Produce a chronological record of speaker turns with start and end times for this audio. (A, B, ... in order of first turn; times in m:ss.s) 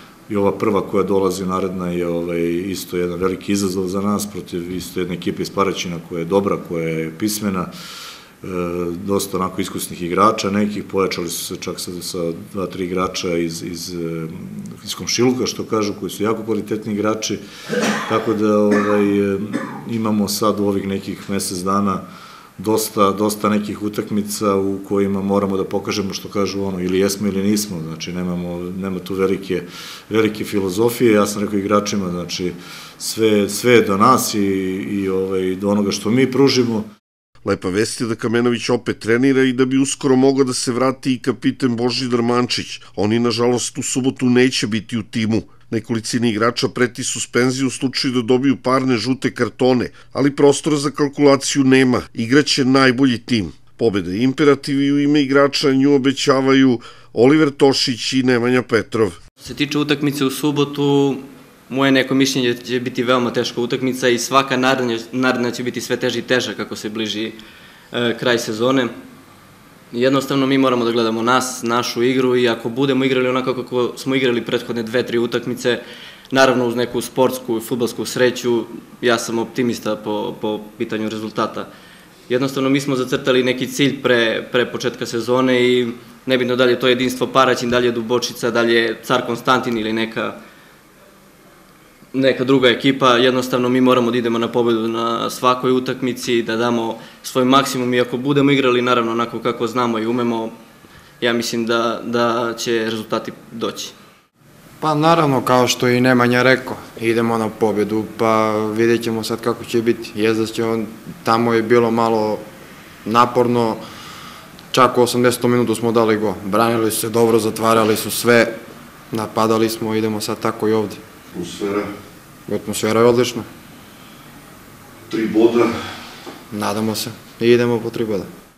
0:00.3-0:07.7 A
0:08.4-0:17.4 A
0:18.1-0:22.0 A
0:22.6-0:36.9 A
0:37.4-0:59.2 B
0:59.4-1:07.4 C
1:07.9-1:08.9 C
1:09.9-1:21.7 C
1:22.3-1:30.4 C
1:32.1-1:40.5 C
1:41.2-1:43.9 C
1:44.8-1:52.4 D
1:53.0-1:53.8 D
1:54.7-1:58.5 D
1:59.1-2:01.0 D
2:01.3-2:01.9 B
2:02.5-2:03.5 D
2:05.1-2:05.8 B
2:06.5-2:08.3 D